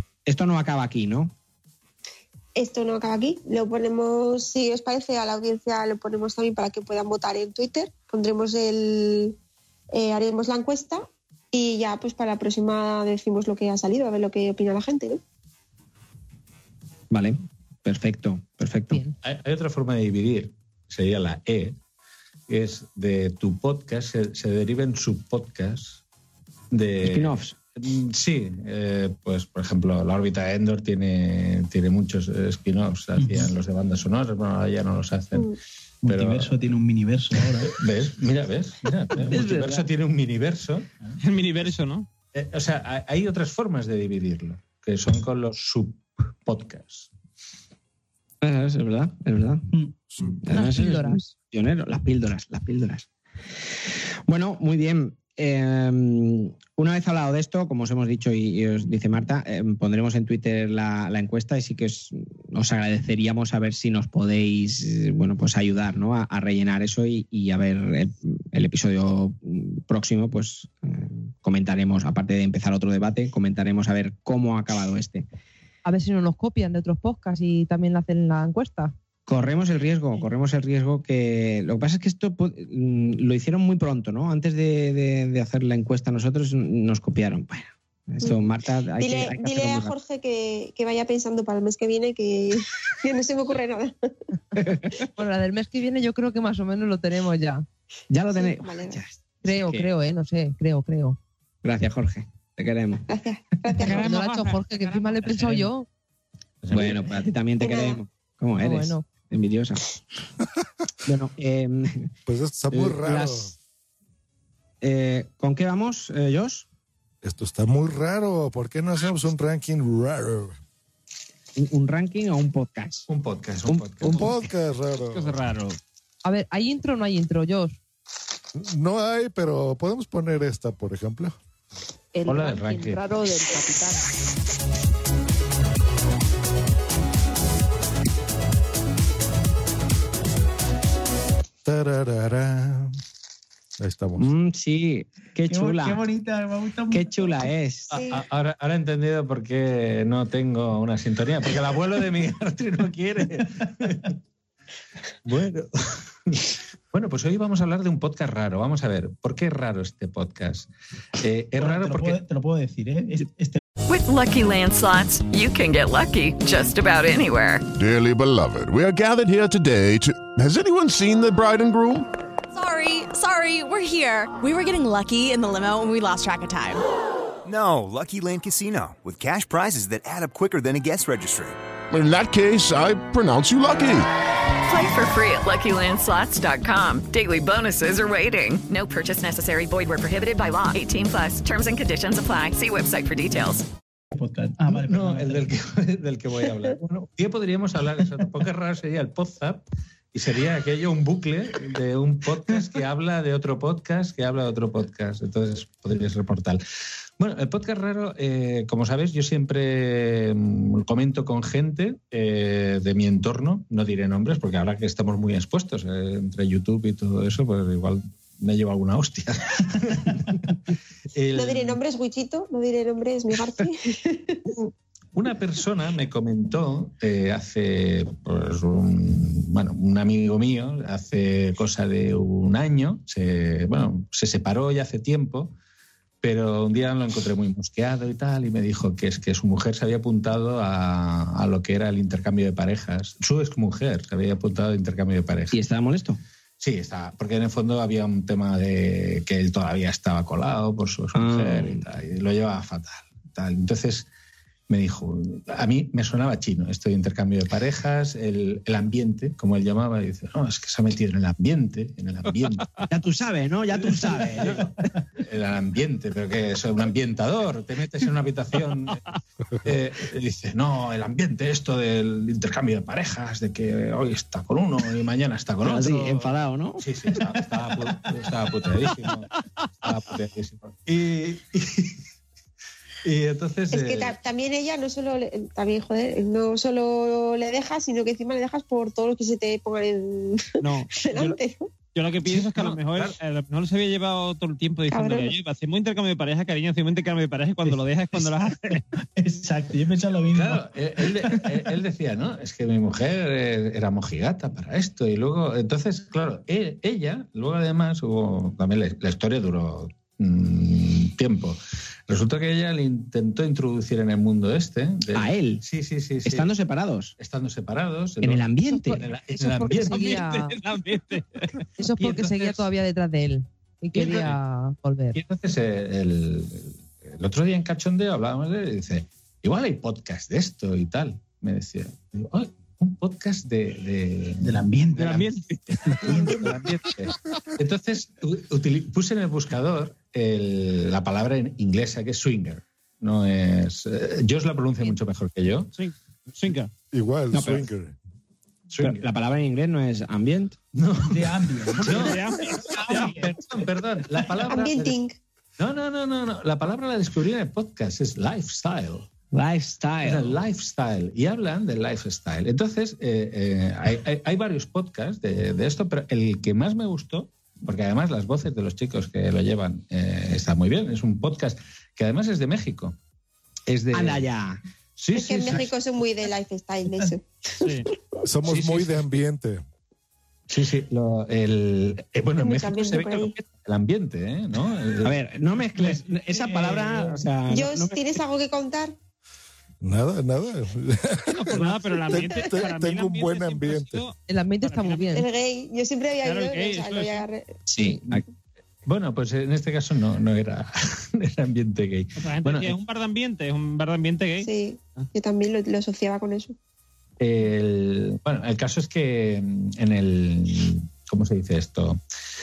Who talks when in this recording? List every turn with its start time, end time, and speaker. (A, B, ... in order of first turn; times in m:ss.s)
0:00.3-0:01.3 A
0:02.6-0:09.4 B
0:09.9-0:15.2 B
0:17.1-0:19.0 A
0:19.2-0:21.8 C
0:22.5-0:26.0 C
0:26.7-0:35.5 C
0:27.0-0:27.6 A
0:33.2-0:33.5 D
0:36.0-0:37.8 D
0:36.1-0:36.6 C
0:37.7-0:40.9 C
0:39.2-0:39.6 D
0:41.2-0:42.1 E
0:42.3-0:47.1 C
0:48.4-0:49.6 A
0:50.4-0:53.1 A
0:50.5-0:51.3 F
0:54.3-1:15.3 A
1:15.8-1:18.9 F
1:19.3-1:30.0 A
1:29.0-1:33.9 B
1:34.6-1:34.9 A
1:35.2-1:37.6 F
1:38.1-1:39.9 A
1:38.3-1:39.0 B
1:39.4-1:41.2 F
1:41.6-1:43.0 A
1:43.1-1:44.1 B
1:43.8-1:45.7 E
1:43.9-1:45.9 F
1:46.6-1:47.0 C
1:46.7-1:49.8 A
1:47.6-1:48.0 B
1:48.6-1:49.0 F
1:51.1-1:52.1 A
1:52.3-1:53.5 G
1:52.7-1:53.5 A
1:54.8-1:56.7 A
1:57.2-2:00.6 G
2:01.6-2:03.1 A
2:03.1-2:04.3 C
2:03.7-2:04.2 A
2:04.0-2:05.4 G
2:05.0-2:05.8 E
2:06.2-2:07.8 F
2:08.6-2:11.4 G
2:12.2-2:14.0 F
2:12.2-2:13.1 C
2:21.6-2:23.0 G
2:23.8-2:24.2 G
2:24.2-2:26.0 A
2:25.5-2:27.4 D
2:26.9-2:28.0 A
2:27.9-2:28.2 B
2:28.0-2:34.0 C
2:35.2-2:42.2 C
2:41.6-2:43.6 D
2:43.9-2:47.7 H
2:47.7-2:52.1 I
2:52.5-2:56.8 J
2:57.4-3:01.6 K
3:01.9-3:04.1 I
3:04.7-3:13.7 H
3:14.1-3:15.5 D
3:14.7-3:26.6 C
3:27.2-3:40.4 C
3:41.1-3:41.8 C
3:41.4-3:44.4 B
3:44.5-3:55.5 C
3:56.2-4:05.6 C
4:05.5-4:06.2 A
4:06.6-4:14.1 C
4:11.2-4:11.8 A
4:14.7-4:22.7 C
4:22.9-4:24.6 A
4:24.1-4:24.7 C
4:25.2-4:29.0 C
4:29.6-4:39.3 C
4:35.6-4:36.8 A
4:39.8-4:42.0 C
4:43.0-4:44.2 C
4:43.7-4:51.7 B
4:50.6-4:51.4 E
4:51.9-4:58.8 E
4:52.2-4:53.2 C
4:54.9-4:55.3 B
4:57.6-4:58.5 D
4:59.2-5:01.7 D
5:00.3-5:16.5 C
5:15.2-5:15.6 A
5:16.2-5:17.1 A
5:17.2-5:20.2 C
5:18.2-5:19.0 A
5:18.7-5:20.6 F
5:19.9-5:21.6 E
5:21.8-5:25.2 F
5:22.0-5:22.6 C
5:25.1-5:35.2 C
5:34.4-5:35.3 D
5:35.0-5:36.4 E
5:35.9-5:36.5 D
5:36.0-5:45.7 C
5:45.8-5:46.7 E
5:46.9-5:48.0 G
5:47.3-5:47.6 A
5:48.7-5:49.0 C
5:48.8-5:50.6 A
5:50.7-5:55.0 C
5:51.1-5:53.5 D
5:51.8-5:53.3 E
5:54.5-5:55.2 B
5:55.6-5:59.1 C
5:59.3-6:00.4 A
6:00.0-6:13.0 C
6:13.7-6:14.3 C
6:13.9-6:14.6 A
6:15.0-6:15.7 C
6:15.1-6:17.9 B
6:18.3-6:19.6 G
6:18.5-6:19.1 C
6:20.5-6:25.2 C
6:22.4-6:23.4 B
6:25.0-6:28.0 A
6:25.8-6:27.2 D
6:27.5-6:28.9 B
6:29.8-6:34.0 G
6:31.3-6:35.2 E
6:34.3-6:35.3 F
6:35.2-6:37.6 B
6:36.2-6:37.2 E
6:37.7-6:38.2 A
6:38.8-6:42.8 C
6:42.2-6:45.1 E
6:44.4-6:46.6 B
6:47.2-6:52.0 C